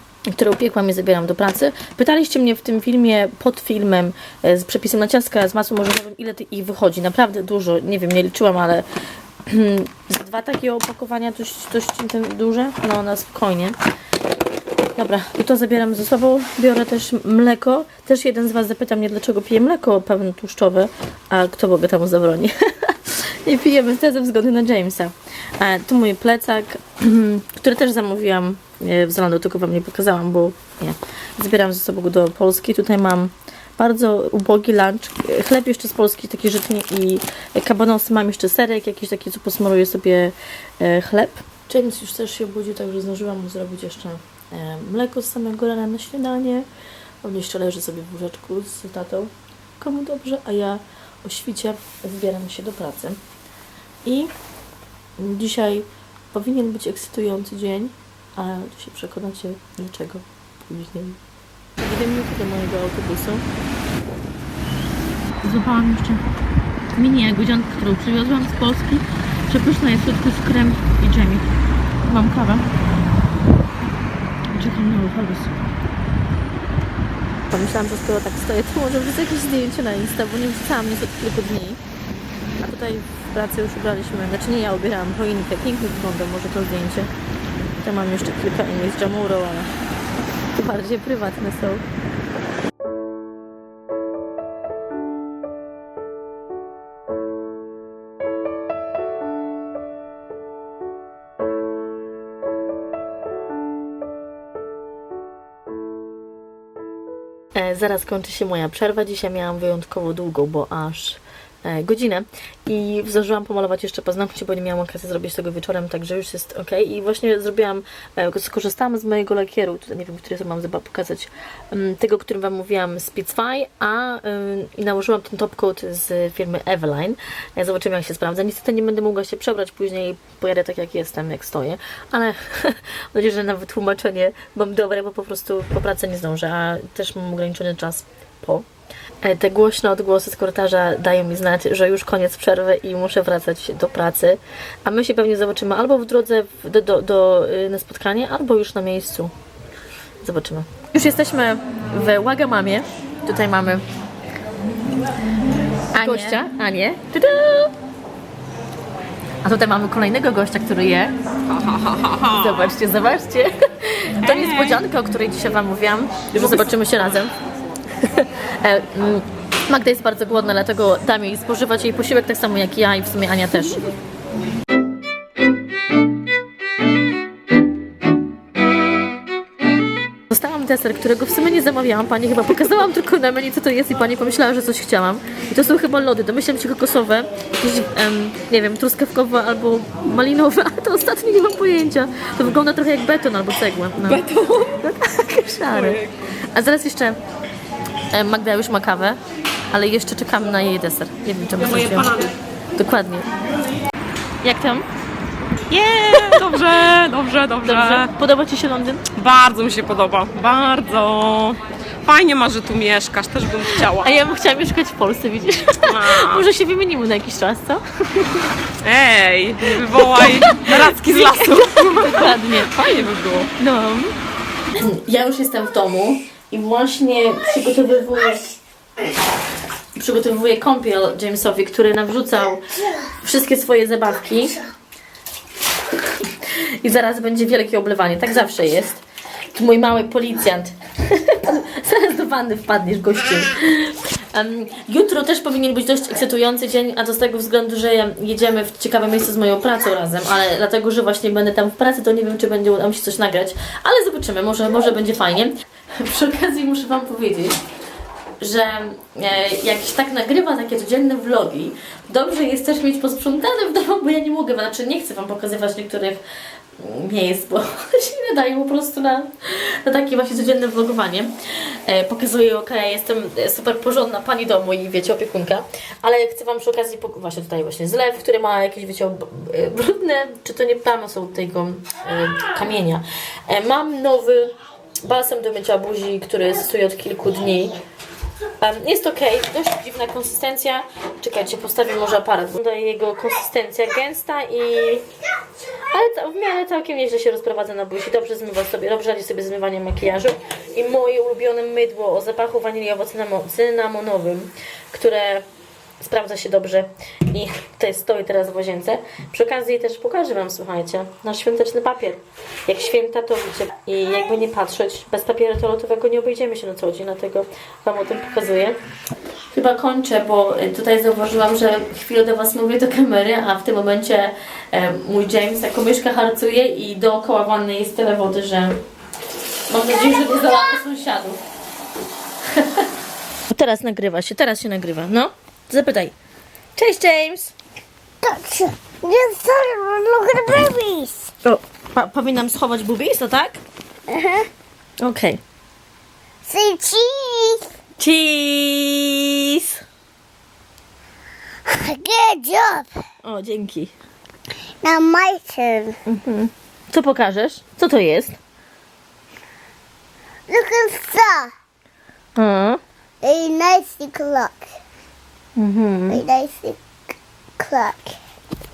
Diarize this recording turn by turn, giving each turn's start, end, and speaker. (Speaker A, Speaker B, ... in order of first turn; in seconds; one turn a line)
Speaker A: 0.3-8.9
Speaker A: 9.5-13.8
Speaker A: 14.9-46.7
Speaker A: 47.2-53.2
Speaker A: 54.0-54.3
Speaker A: 55.2-61.2
Speaker A: 61.8-63.5
Speaker A: 65.4-66.2
Speaker A: 66.9-71.5
Speaker A: 72.0-72.7
Speaker A: 74.5-75.5
Speaker A: 77.5-81.8
Speaker A: 82.6-87.1
Speaker A: 87.8-89.7
Speaker A: 90.5-91.8
Speaker A: 107.5-138.7
Speaker A: 139.2-149.3
Speaker A: 150.2-153.8
Speaker A: 155.9-157.7
Speaker A: 159.4-161.2
Speaker B: 161.5-162.6
Speaker A: 162.1-167.3
Speaker B: 164.2-164.8
Speaker B: 166.3-166.7
Speaker A: 168.0-173.9
Speaker A: 180.3-197.2
Speaker B: 194.1-194.8
Speaker B: 195.7-196.1
Speaker A: 198.1-199.2
Speaker A: 199.7-202.2
Speaker B: 201.7-202.3
Speaker A: 202.8-203.3
Speaker A: 204.4-204.9
Speaker B: 205.7-208.1
Speaker A: 207.6-209.1
Speaker B: 209.1-214.1
Speaker A: 213.7-218.5
Speaker B: 215.8-216.5
Speaker B: 218.8-223.5
Speaker A: 220.0-223.0
Speaker A: 223.6-224.2
Speaker A: 224.7-228.6
Speaker A: 229.9-234.6
Speaker A: 236.2-239.0
Speaker A: 239.5-257.6
Speaker A: 258.4-266.2
Speaker A: 266.8-287.8
Speaker A: 288.6-295.1
Speaker A: 295.9-305.5
Speaker A: 306.0-318.8
Speaker A: 319.5-328.8
Speaker A: 329.7-331.4
Speaker A: 332.5-332.9
Speaker A: 333.5-336.1
Speaker A: 336.8-337.5
Speaker C: 338.2-341.3
Speaker A: 341.4-343.6
Speaker C: 344.1-344.5
Speaker A: 345.0-345.4
Speaker C: 346.4-347.7
Speaker A: 348.0-349.8
Speaker C: 351.7-352.9
Speaker A: 353.2-353.9
Speaker C: 354.8-356.0
Speaker A: 356.1-358.4
Speaker C: 360.5-361.5
Speaker A: 362.4-362.8
Speaker C: 363.2-364.7
Speaker A: 365.6-366.2
Speaker C: 366.1-366.8
Speaker C: 367.6-368.2